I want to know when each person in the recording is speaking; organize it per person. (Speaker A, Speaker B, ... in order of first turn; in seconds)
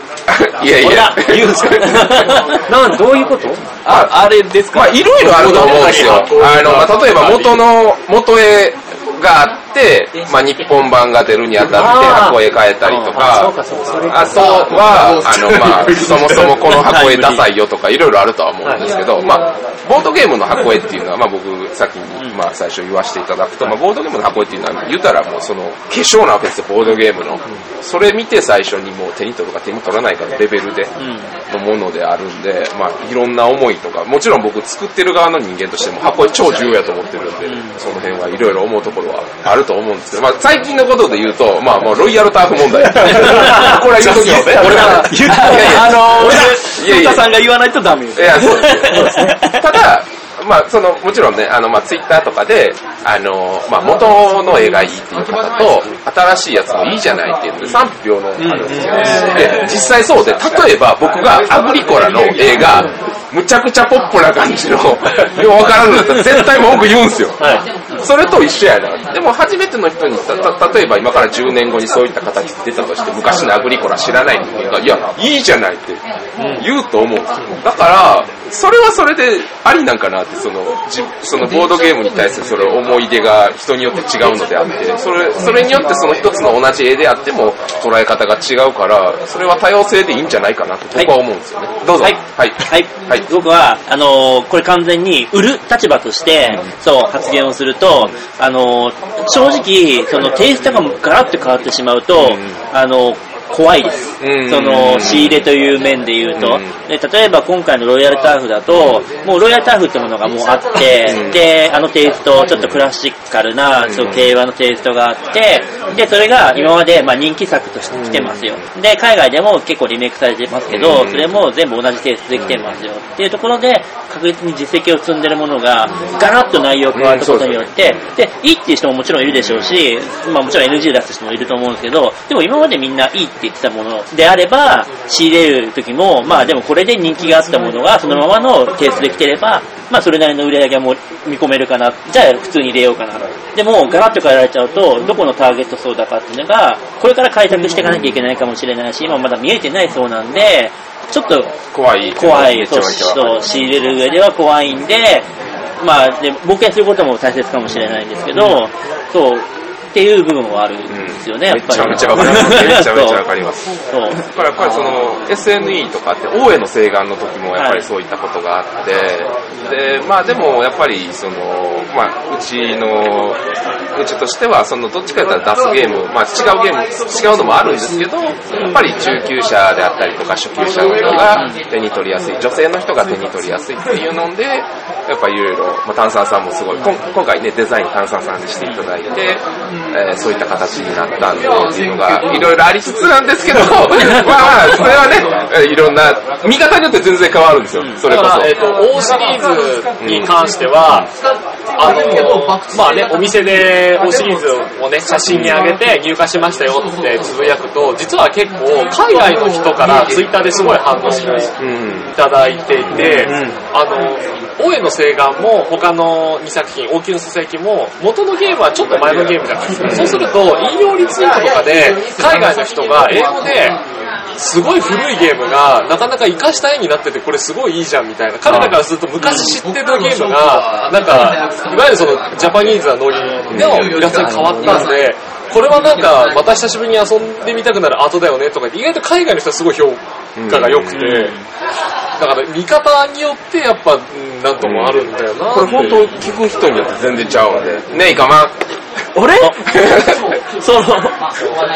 Speaker A: 0.3-2.4, 3.9-13.6, 14.1-30.9, 31.5-47.3, 48.1-67.4, 68.0-76.0, 76.5-93.3, 102.1-102.6, 104.2-105.5, 106.4-106.8, 108.7-109.0, 111.1-111.4, 112.5-112.8, 113.8-114.3, 117.9-118.6, 120.7-121.3, 122.3-122.7, 127.0-128.1, 129.2-129.8, 136.3-136.5, 147.8-148.1, 151.7-153.4, 157.7-158.0, 160.9-173.4, 173.9-198.5, 200.0-200.3, 205.3-205.6, 211.6-212.1, 212.9-213.4, 219.8-220.3, 233.5-234.1, 240.4-241.2, 244.6-248.6, 249.7-250.2
Speaker B: 0.8-3.6, 11.7-12.4, 13.1-14.8, 43.0-43.6, 58.4-59.0, 67.4-67.7, 76.4-76.6, 213.0-213.5
Speaker C: 3.9-6.3, 43.2-49.6, 249.1-249.6, 250.6-251.2
Speaker D: 5.2-7.6, 198.0-201.1, 201.8-211.5, 212.1-223.8, 224.3-241.4, 242.2-246.1
Speaker E: 12.9-13.1, 16.8-17.5, 31.0-31.3, 37.4-37.8, 92.0-151.6, 152.1-155.3, 155.8-163.2, 163.9-164.2, 167.6-167.9, 229.2-229.5, 241.0-241.3